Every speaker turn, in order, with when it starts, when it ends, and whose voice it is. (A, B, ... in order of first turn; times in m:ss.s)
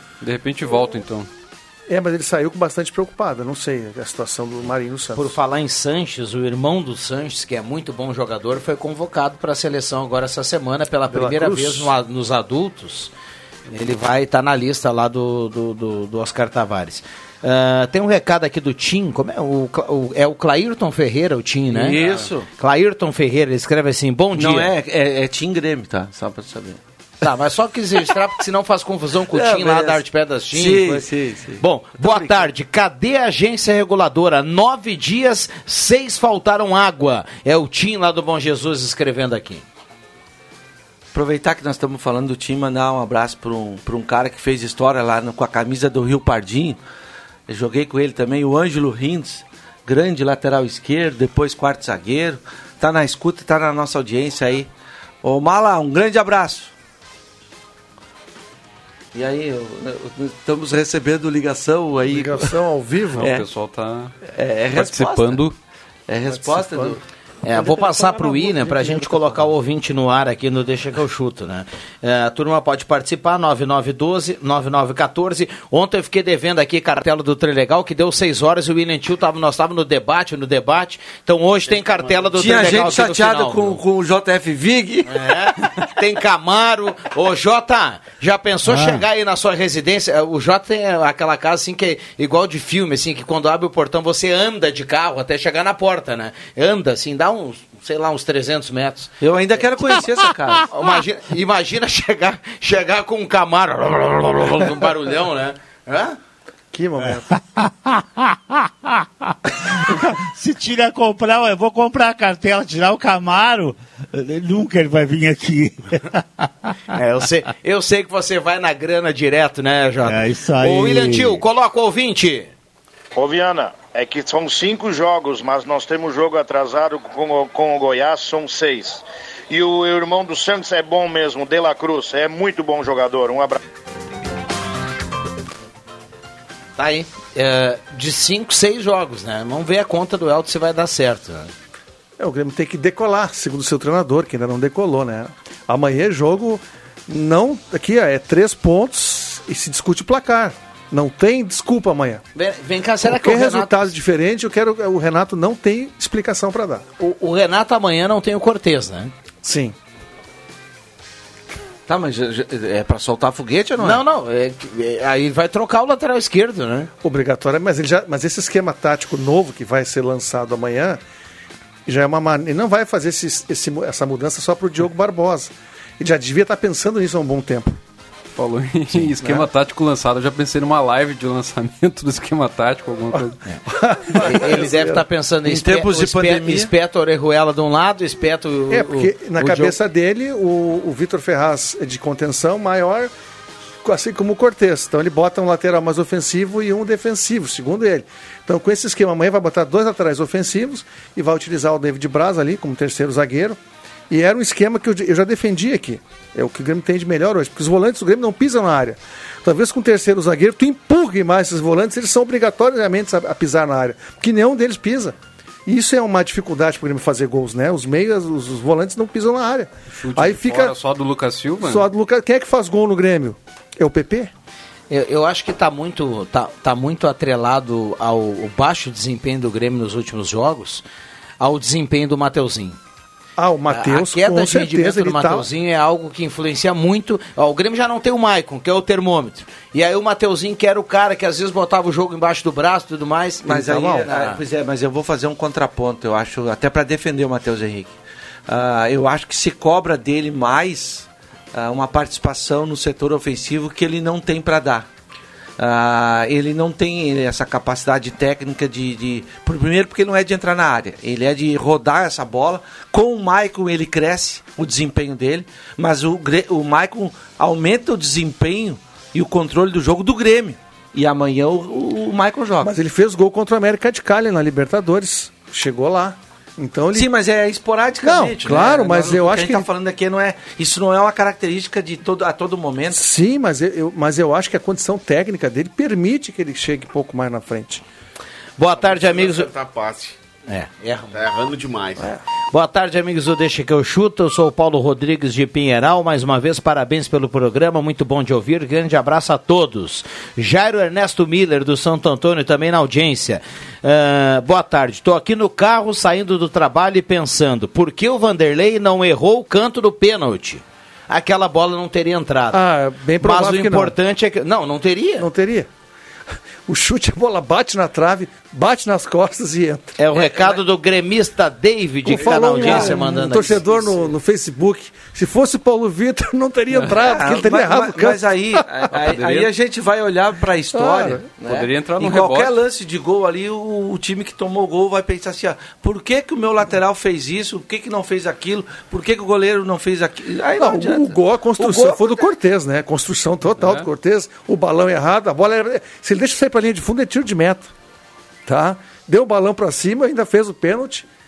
0:00.2-0:01.3 A
0:01.9-0:05.3 B
0:05.2-0:13.1 C
0:11.1-0:11.9 B
0:13.7-0:24.7 C
0:21.7-0:22.5 D
0:24.4-0:26.8 D
0:27.2-0:31.0 C
0:29.3-0:32.5 D
0:31.6-0:39.6 C
0:41.1-0:46.8 D
0:47.5-0:54.7 D
0:55.2-0:56.7 D
0:59.1-1:02.6 D
1:02.1-1:03.3 B
1:03.2-1:04.1 A
1:03.2-1:03.4 D
1:04.3-1:05.4 D
1:04.7-1:05.6 A
1:06.1-1:07.0 D
1:06.3-1:09.4 B
1:07.4-1:23.8 C
1:21.7-1:23.0 E
1:22.4-1:25.3 D
1:25.1-1:39.1 C
1:28.7-1:29.0 F
1:39.2-1:40.7 D
1:40.7-1:46.2 C
1:46.7-1:47.4 B
1:47.6-1:56.5 F
1:56.9-2:02.5 C
2:00.0-2:01.4 F
2:03.2-2:13.6 G
2:16.8-2:21.5 C
2:22.2-2:32.2 B
2:32.4-2:33.9 C
2:33.0-2:36.8 B
2:37.0-2:39.1 C
2:39.4-2:39.8 B
2:41.9-2:44.0 D
2:43.8-2:46.9 C
2:47.0-2:51.0 B
2:51.9-2:57.8 B
2:58.4-3:03.4 A
3:03.1-3:05.0 B
3:04.2-3:09.8 C
3:05.5-3:06.7 D
3:08.7-3:13.1 B
3:13.8-3:23.6 B
3:24.1-3:40.8 B
3:39.9-3:41.9 A
3:41.6-3:44.3 B
3:44.9-3:50.8 C
3:51.4-3:52.8 C
3:53.4-3:55.5 B
3:53.7-4:03.5 C
4:03.4-4:04.1 B
4:03.4-4:07.9 D
4:04.0-4:04.4 C
4:08.5-4:14.9 D
4:15.6-4:32.7 D
4:32.6-4:37.1 B
4:36.9-4:43.1 D
4:38.0-4:39.7 B
4:42.9-4:47.8 B
4:48.6-4:49.5 C
4:48.8-4:50.2 E
4:50.5-4:51.2 C
4:51.1-4:52.1 E
4:52.5-5:12.6 C
5:12.5-5:14.0 B
5:13.2-5:15.3 C
5:15.2-5:15.7 B
5:16.7-5:20.0 B
5:20.0-5:23.6 C
5:20.2-5:20.6 D
5:22.0-5:28.6 B
5:22.3-5:24.1 D
5:26.9-5:42.2 D
5:28.9-5:29.5 A
5:30.7-5:31.2 B
5:31.4-5:32.6 A
5:40.6-5:47.7 B
5:43.6-5:43.8 A
5:48.5-5:51.1 B